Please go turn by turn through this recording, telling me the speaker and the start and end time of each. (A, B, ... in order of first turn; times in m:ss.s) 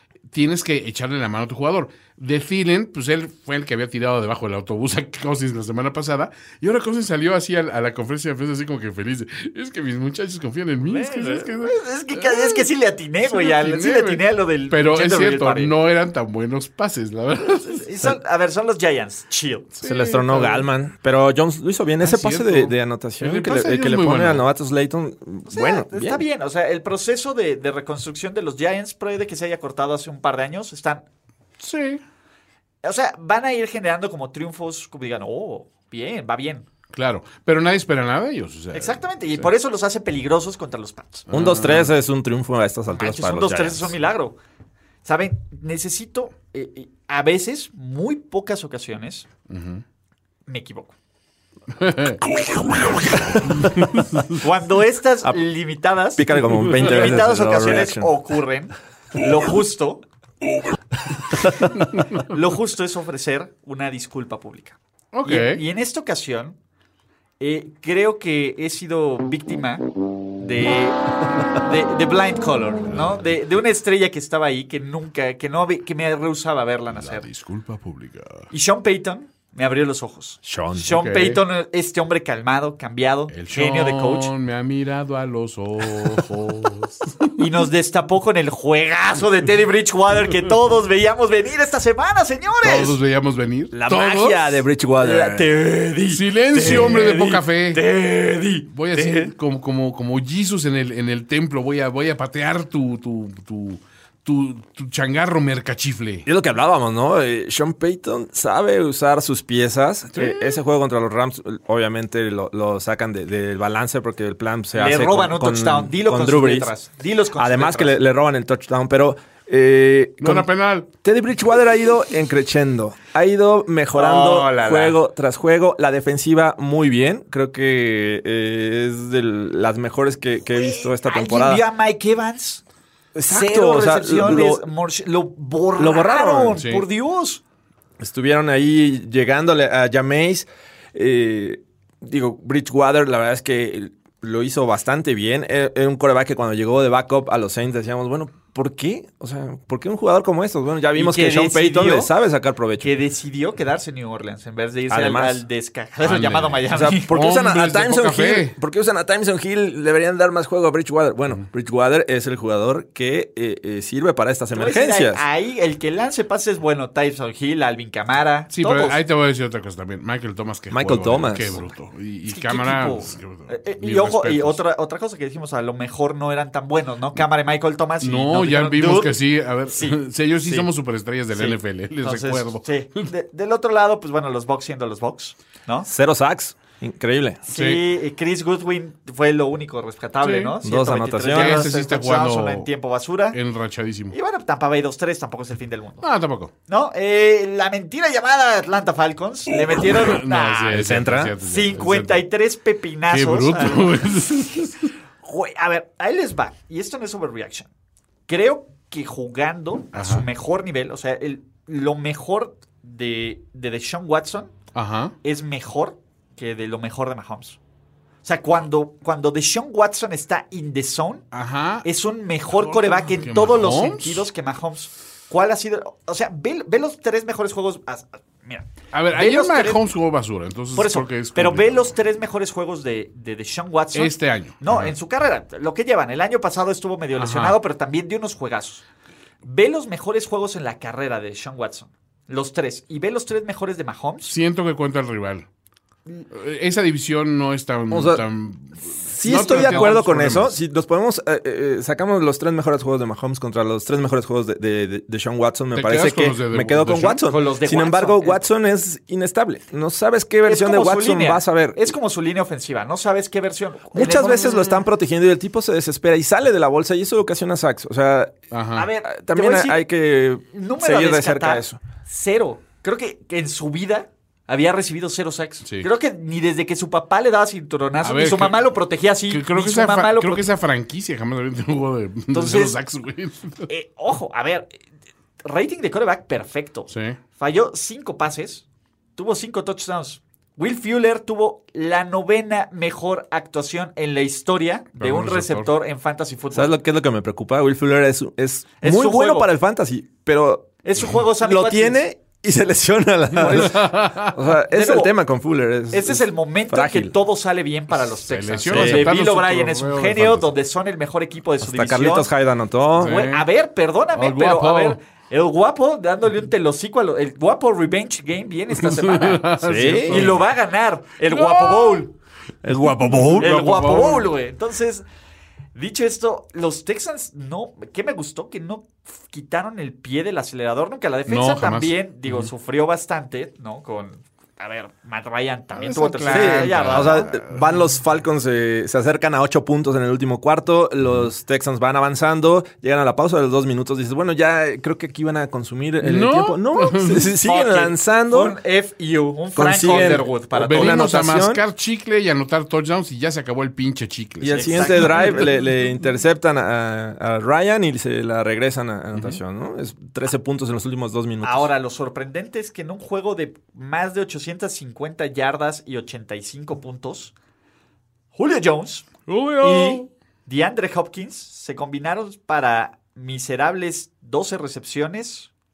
0:00.3-0:12.7 A
0:10.8-0:15.7 B
0:13.2-0:17.8 A
0:17.5-0:19.7 B
0:19.8-0:20.7 A
0:19.8-0:26.2 C
0:22.0-0:24.5 A
0:25.5-0:31.0 B
0:31.6-0:32.0 A
0:32.8-0:36.7 B
0:36.9-0:39.5 A
0:38.7-0:41.3 B
0:41.3-0:41.9 A
0:41.3-0:44.0 C
0:42.9-0:44.4 B
0:45.0-0:49.3 B
0:49.5-0:49.8 A
0:50.5-0:51.0 B
0:51.7-0:52.2 A
0:53.5-0:54.3 A
0:54.3-1:00.0 B
0:56.2-0:58.1 C
1:02.2-1:06.6 B
1:05.1-1:05.6 A
1:07.4-1:09.8 B
1:10.4-1:17.3 B
1:12.8-1:13.5 A
1:16.9-1:18.5 A
1:18.5-1:24.3 B
1:20.4-1:20.9 C
1:20.9-1:21.4 A
1:23.3-1:27.4 A
1:27.4-1:33.0 B
1:32.6-1:34.6 A
1:33.7-1:35.5 C
1:35.0-1:39.3 B
1:36.1-1:37.8 A
1:38.7-1:46.3 A
1:46.3-1:56.7 C
1:50.1-1:50.6 A
1:54.7-1:58.0 B
1:57.4-2:00.5 C
2:00.2-2:00.9 A
2:01.0-2:11.6 C
2:03.9-2:05.0 B
2:10.6-2:12.6 B
2:13.2-2:14.6 C
2:13.3-2:17.4 B
2:15.8-2:16.6 C
2:16.5-2:16.8 A
2:18.0-2:32.9 C
2:31.0-2:32.1 B
2:32.8-2:37.2 B
2:34.9-2:35.4 C
2:36.0-2:38.6 A
2:36.7-2:45.2 C
2:44.5-2:49.0 B
2:48.5-2:54.6 A
2:50.7-2:51.6 C
2:52.3-2:59.2 B
2:58.0-3:03.1 A
2:59.7-3:00.7 B
3:01.3-3:05.9 B
3:05.9-3:07.4 C
3:07.5-3:13.4 B
3:07.5-3:07.8 A
3:10.2-3:10.6 A
3:10.6-3:11.6 C
3:11.3-3:12.7 A
3:13.3-3:14.2 A
3:14.1-3:16.1 B
3:16.0-3:16.5 A
3:16.7-3:20.8 B
3:19.9-3:22.2 A
3:20.7-3:21.4 C
3:21.4-3:24.1 B
3:23.1-3:24.9 A
3:25.2-3:27.7 B
3:28.3-3:34.5 B
3:29.9-3:30.3 A
3:34.7-3:35.2 A
3:35.2-3:37.6 B
3:38.2-3:41.2 B
3:41.3-3:41.9 A
3:41.8-3:49.9 B
3:42.5-3:44.3 A
3:48.9-3:52.0 A
3:50.8-3:58.8 B
3:53.9-3:54.9 A
3:57.2-3:57.6 A
3:59.4-4:04.4 B
4:04.3-4:05.5 A
4:06.3-4:10.6 A
4:07.9-4:08.2 C
4:09.1-4:21.9 C
4:09.3-4:10.0 B
4:15.7-4:17.2 A
4:17.2-4:18.4 B
4:20.4-4:24.8 B
4:23.9-4:28.4 C
4:28.5-4:28.9 A
4:28.8-4:29.8 B
4:29.0-4:31.8 C
4:30.5-4:40.5 B
4:38.0-4:38.7 A
4:39.3-4:43.7 A
4:42.3-4:42.8 B
4:43.7-4:44.7 B
4:45.4-4:48.6 B
4:46.9-4:47.2 A
4:49.2-4:56.8 B
4:55.0-4:55.7 A
4:56.5-5:07.2 C
4:58.8-4:59.5 B
5:00.8-5:02.0 B
5:03.4-5:04.4 A
5:04.7-5:05.1 B
5:05.9-5:12.3 B
5:08.1-5:10.5 A
5:08.7-5:09.1 C
5:11.6-5:13.2 C
5:13.0-5:13.5 A
5:13.0-5:19.5 B
5:14.1-5:15.0 A
5:18.7-5:20.4 A
5:19.6-5:20.4 C
5:20.1-5:22.1 B
5:21.2-5:22.1 A
5:22.6-5:23.5 C
5:22.7-5:24.3 A
5:23.4-5:25.0 B
5:25.8-5:37.3 B
5:31.3-5:32.5 A
5:35.8-5:37.7 A
5:36.3-5:48.6 C
5:46.0-5:47.4 A
5:47.4-5:51.2 B
5:49.6-5:51.6 C
5:50.6-5:55.4 A
5:54.4-6:01.7 C
5:54.5-5:55.5 B
5:59.1-5:59.4 A
6:01.4-6:07.3 B
6:08.4-6:15.5 B
6:09.3-6:10.1 A